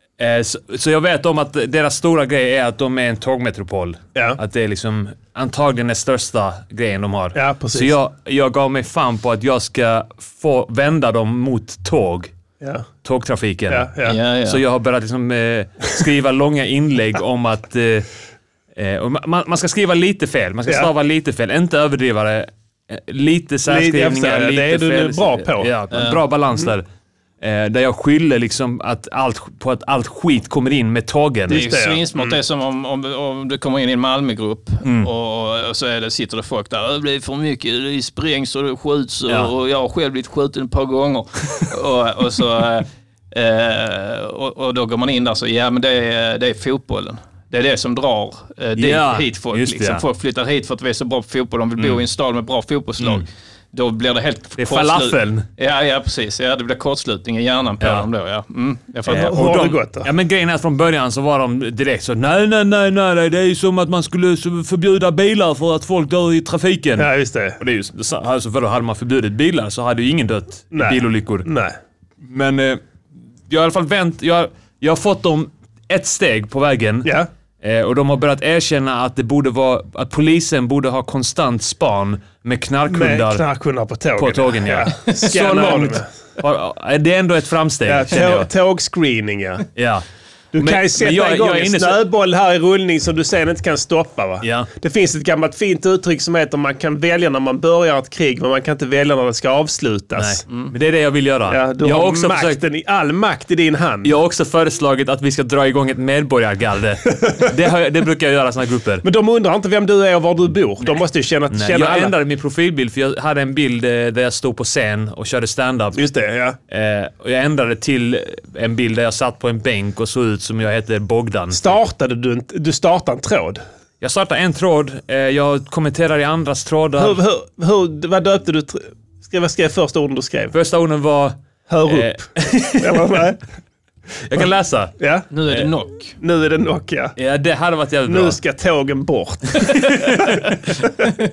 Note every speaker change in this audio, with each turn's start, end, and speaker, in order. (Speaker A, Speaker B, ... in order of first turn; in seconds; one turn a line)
Speaker A: 0.2-12.3
Speaker B: 7.3-8.0
Speaker B: 12.6-12.9
Speaker A: 13.0-13.9
Speaker B: 13.7-14.2
Speaker C: 14.0-14.6
Speaker A: 14.4-18.1
Speaker A: 18.8-26.9
Speaker B: 23.7-25.7
Speaker C: 25.9-26.2
Speaker A: 27.4-31.6
Speaker B: 31.5-32.4
Speaker C: 31.5-59.4
Speaker A: 34.8-35.1
Speaker A: 48.8-50.0
Speaker A: 54.6-55.5
Speaker A: 57.8-58.1
Speaker B: 59.1-60.1
Speaker A: 59.1-67.1
Speaker B: 67.0-67.6
Speaker A: 67.6-71.5
Speaker B: 70.7-71.8
Speaker A: 72.2-72.8
Speaker A: 73.5-83.4
Speaker B: 82.9-86.1
Speaker A: 84.2-88.5
Speaker B: 87.9-89.7
Speaker A: 89.8-90.0
Speaker B: 90.5-100.4
Speaker A: 90.5-92.0
Speaker A: 94.4-94.7
Speaker A: 100.2-102.6
Speaker B: 101.5-104.1
Speaker A: 104.0-109.0
Speaker B: 109.0-112.1
Speaker A: 111.5-116.0
Speaker B: 116.0-116.6
Speaker A: 116.7-121.8
Speaker B: 121.5-123.6
Speaker A: 124.0-127.2
Speaker B: 127.0-130.5
Speaker A: 130.5-133.2
Speaker B: 131.7-133.4
Speaker A: 134.2-135.0
Speaker B: 135.0-135.3
Speaker C: 135.3-136.2
Speaker B: 136.2-137.2
Speaker A: 137.2-138.4
Speaker B: 138.1-141.1
Speaker A: 139.6-140.6